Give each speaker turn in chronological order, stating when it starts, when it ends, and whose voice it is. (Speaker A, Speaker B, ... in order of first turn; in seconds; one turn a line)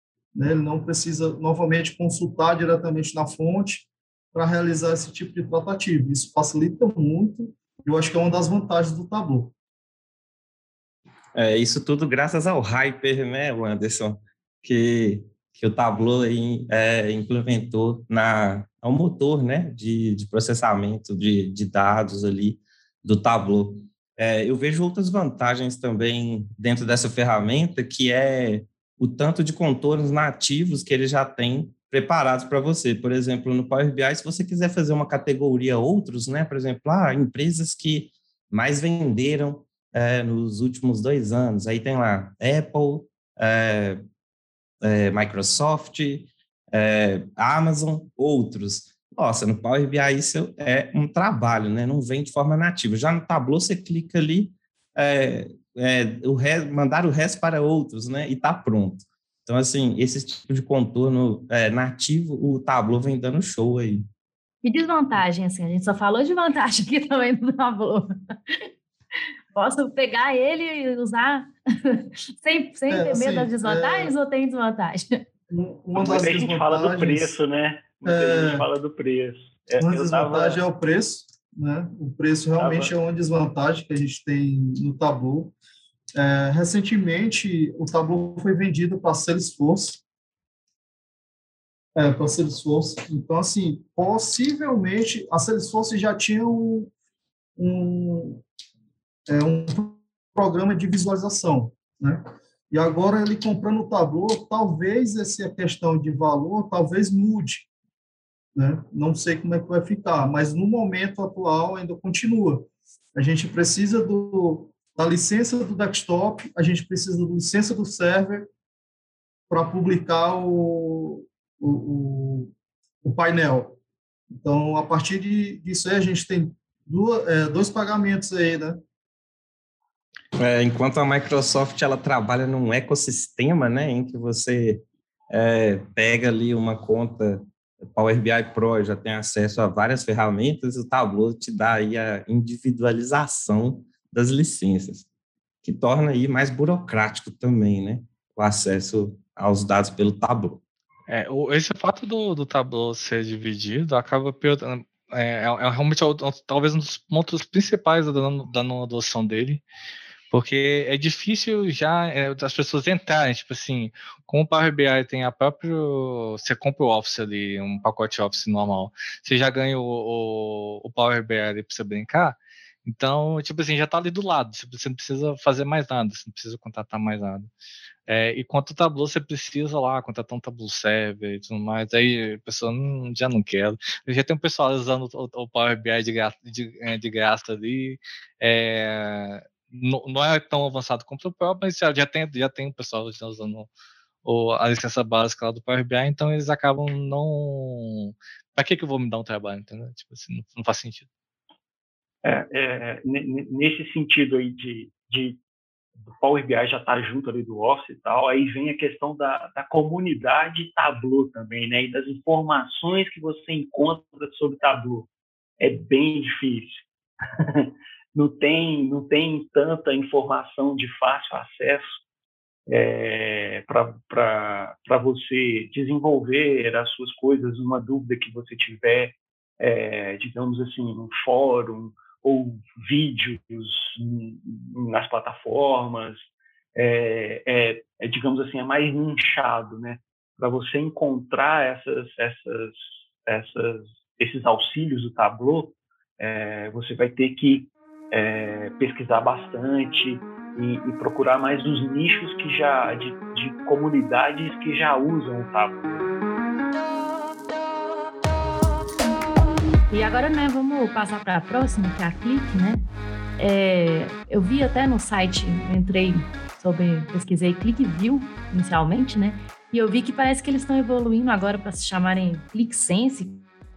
Speaker A: 0.3-9.5
Speaker B: 11.3-44.0
Speaker B: 44.8-64.0
Speaker C: 64.6-68.1
Speaker C: 69.5-75.2
Speaker A: 72.9-74.1
Speaker A: 75.5-77.4
Speaker D: 76.0-80.6
Speaker A: 78.1-78.7
Speaker A: 79.8-85.5
Speaker D: 82.6-82.9
Speaker A: 86.2-90.0
Speaker A: 92.0-96.9
Speaker A: 97.6-98.4
Speaker A: 99.3-107.7
Speaker A: 108.6-118.5
Speaker A: 119.5-123.8
Speaker A: 124.3-128.8
Speaker B: 130.4-145.1
Speaker B: 145.6-150.6
Speaker E: 151.1-159.6
Speaker E: 160.3-177.5
Speaker E: 178.1-193.7
Speaker E: 194.2-201.1
Speaker D: 202.2-205.4
Speaker D: 206.2-215.1
Speaker D: 215.6-216.8
Speaker D: 217.4-221.9
Speaker D: 222.7-255.8
Speaker C: 259.9-262.9
Speaker C: 263.4-273.4